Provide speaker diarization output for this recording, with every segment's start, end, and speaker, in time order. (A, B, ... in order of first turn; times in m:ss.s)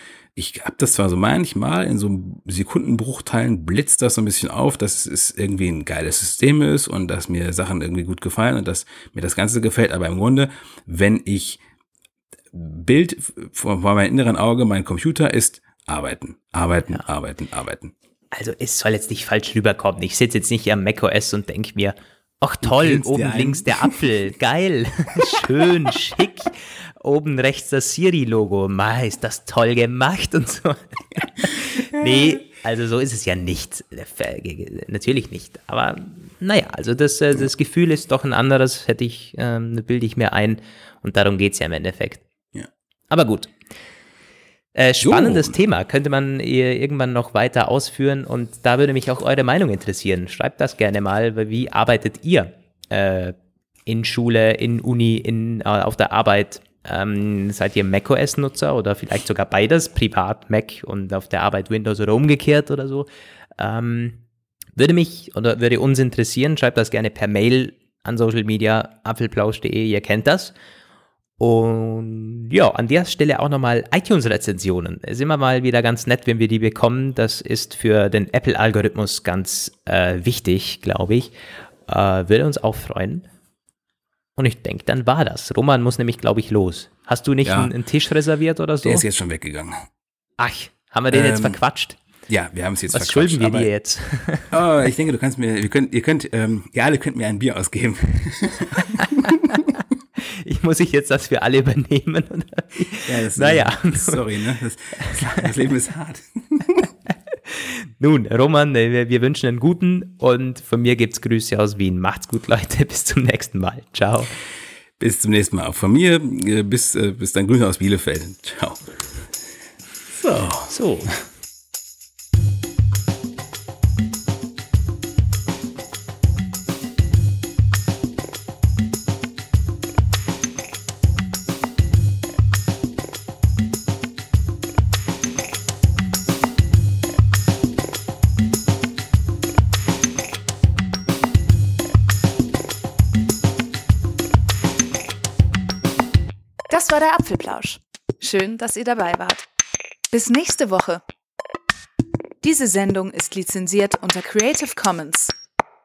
0:00.3-0:11.6 A
0:12.5-0:17.9 A
0:18.3-0:42.2 B
0:22.6-0:24.1 A
0:43.1-0:43.5 B
0:44.7-1:03.1 B
0:45.0-0:45.6 A
1:03.6-1:04.2 B
1:04.8-1:10.5 B
1:11.4-1:21.3 B
1:21.9-1:23.3 B
1:24.4-1:29.0 B
1:27.4-1:27.7 A
1:28.8-1:29.8 A
1:30.4-1:32.0 B
1:31.1-1:31.6 A
1:32.3-1:33.7 A
1:32.9-1:34.5 B
1:34.5-1:39.6 A
1:38.9-1:39.6 B
1:40.2-1:44.2 B
1:43.1-1:46.9 A
1:45.0-1:45.4 B
1:47.5-1:54.3 B
1:55.0-1:59.0 A
2:00.1-2:00.7 A
2:00.7-2:01.1 B
2:26.7-2:29.4 C
2:30.1-2:31.0 C
2:32.4-2:35.3 C